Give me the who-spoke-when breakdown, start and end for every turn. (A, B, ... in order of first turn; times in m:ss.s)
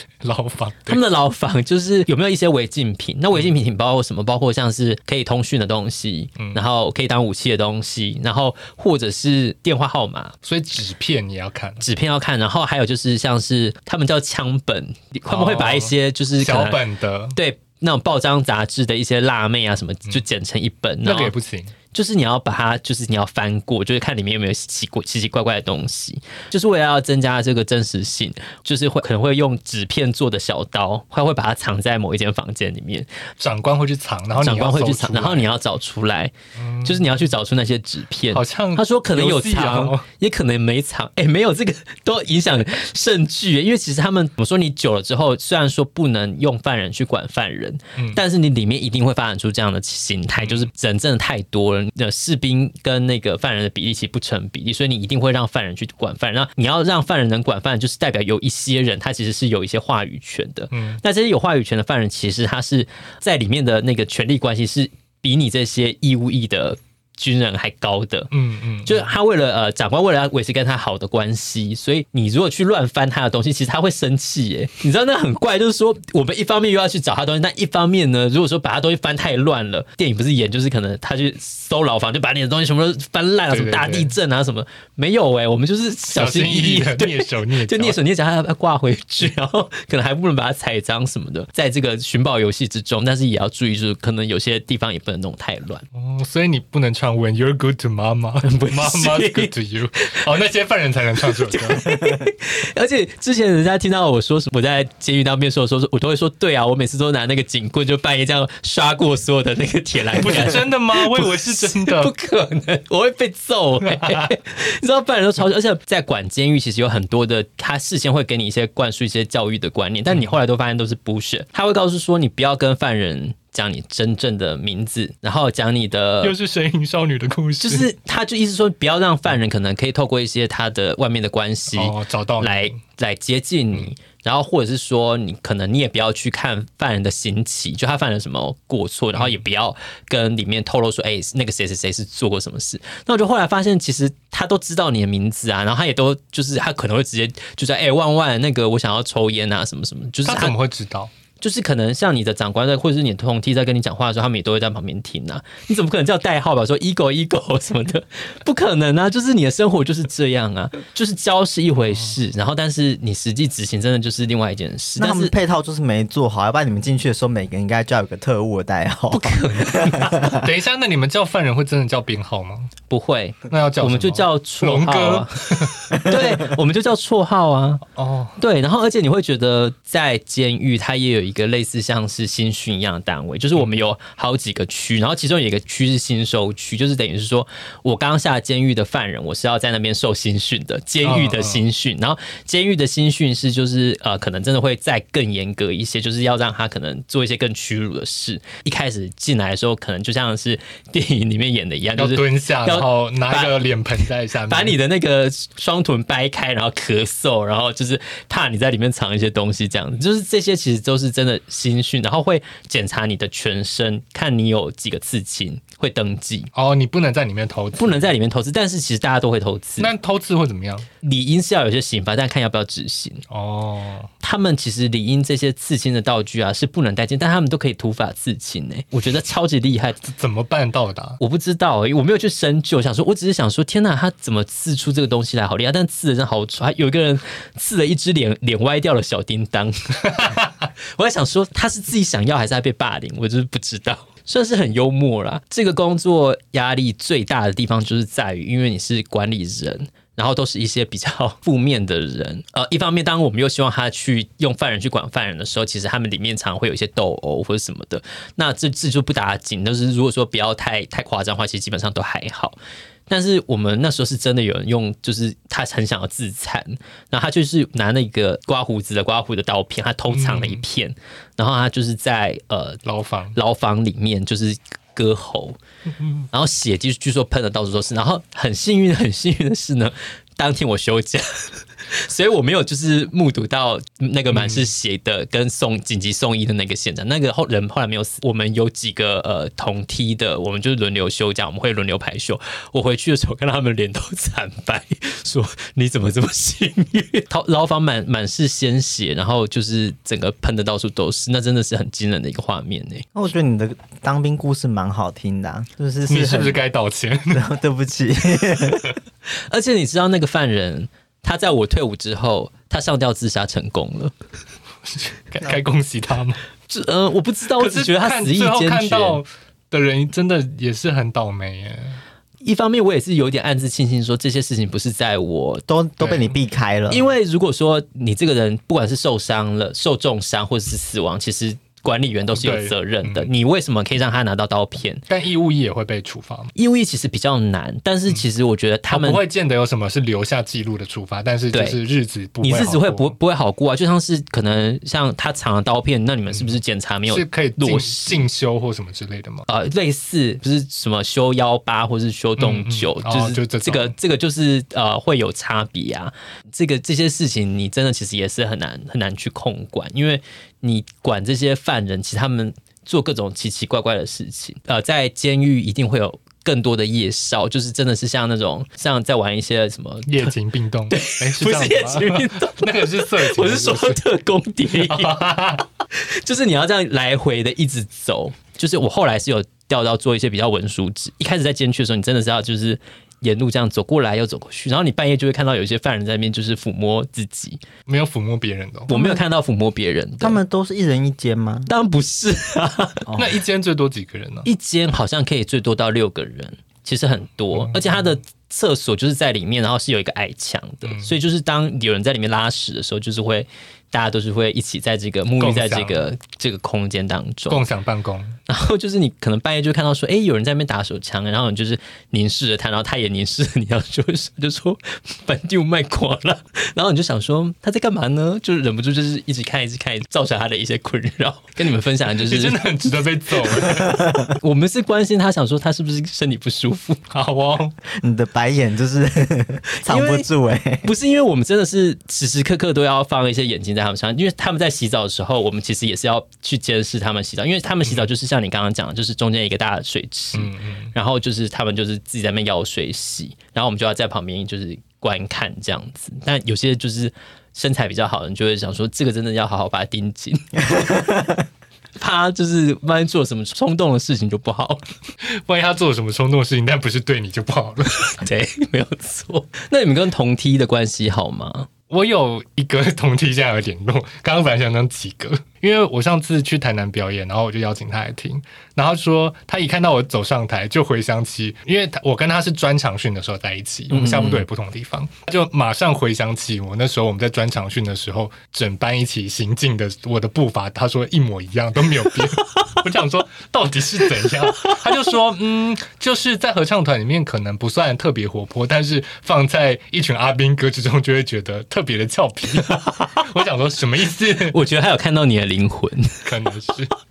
0:00.2-0:01.0 A
0:00.8-0:10.3 B
0:10.4-0:11.8 A
0:11.8-0:16.8 B
0:15.3-0:17.4 A
0:17.3-0:21.3 B
0:21.0-0:21.7 A
0:21.9-0:33.1 B
0:33.4-0:35.5 A
0:34.4-1:08.3 B
0:36.6-0:37.2 A
0:38.3-0:40.0 A
0:50.4-0:50.7 A
1:00.7-1:01.0 A
1:08.3-1:09.1 A
1:08.8-1:35.8 B
1:23.5-1:24.1 A
1:26.1-1:28.0 A
1:35.9-1:41.9 A
1:38.4-1:40.2 B
1:41.2-2:06.3 B
1:50.2-1:52.1 A
1:53.9-1:54.3 A
2:06.2-2:07.9 A
2:07.6-2:30.6 B
2:11.7-2:12.8 A
2:19.1-2:19.4 A
2:30.2-2:31.1 A
2:31.4-2:45.3 B
2:45.0-2:50.5 C
2:49.1-2:50.3 B
2:50.2-2:52.7 A
2:52.9-2:57.8 B
2:53.5-2:56.0 A
2:57.9-2:58.4 A
2:58.4-3:36.5 B
3:11.0-3:11.6 A
3:22.0-3:24.8 A
3:36.5-3:38.1 A
3:37.8-3:39.9 B
3:39.8-3:40.8 A
3:41.0-3:43.2 B
3:43.3-3:44.1 A
3:44.2-3:50.0 B
3:50.0-3:51.2 A
3:51.2-4:00.3 B
4:00.9-4:22.6 B
4:23.1-4:32.8 B
4:30.1-4:30.6 A
4:32.8-4:33.4 A
4:33.3-4:35.6 B
4:36.3-5:03.0 B
4:44.3-4:44.7 A
5:03.1-5:06.6 C
5:06.1-5:07.4 A
5:07.3-5:09.0 C
5:09.4-5:14.1 B
5:14.9-5:16.4 A
5:16.7-5:19.2 B
5:17.6-5:22.0 A
5:22.4-5:25.6 B
5:25.7-5:27.0 C
5:26.0-5:26.3 A
5:26.9-5:35.0 B
5:32.4-5:33.3 A
5:35.1-5:36.5 A
5:36.5-5:39.2 B
5:38.9-5:43.2 A
5:41.5-5:41.8 B
5:42.4-5:48.2 B
5:47.1-5:49.5 A
5:49.5-6:10.3 B
5:52.4-5:53.9 A
6:10.1-6:14.0 A
6:10.9-6:15.2 B
6:14.7-6:15.6 A
6:15.9-6:27.6 B
6:27.9-6:28.9 A
6:28.9-6:30.4 B
6:28.9-6:29.2 C
6:30.2-6:31.7 C
6:31.7-6:33.1 B
6:33.1-6:33.3 C
6:33.1-6:34.5 A
6:34.4-6:47.6 B
6:37.5-6:38.1 A
6:40.8-6:41.1 A
6:45.4-6:46.1 A
6:47.5-6:48.4 A
6:48.5-7:07.0 B
7:02.2-7:04.0 A
7:04.0-7:04.3 C
7:07.1-7:07.8 A
7:07.9-7:10.9 C
7:09.8-7:10.3 B
7:10.8-7:31.2 B
7:20.3-7:20.9 A
7:32.0-7:34.8 B
7:35.3-7:38.2 A
7:38.2-7:41.7 B
7:41.9-8:14.6 A
7:53.9-7:54.4 B
8:12.6-8:13.2 B
8:14.4-8:16.3 B
8:16.2-8:16.9 A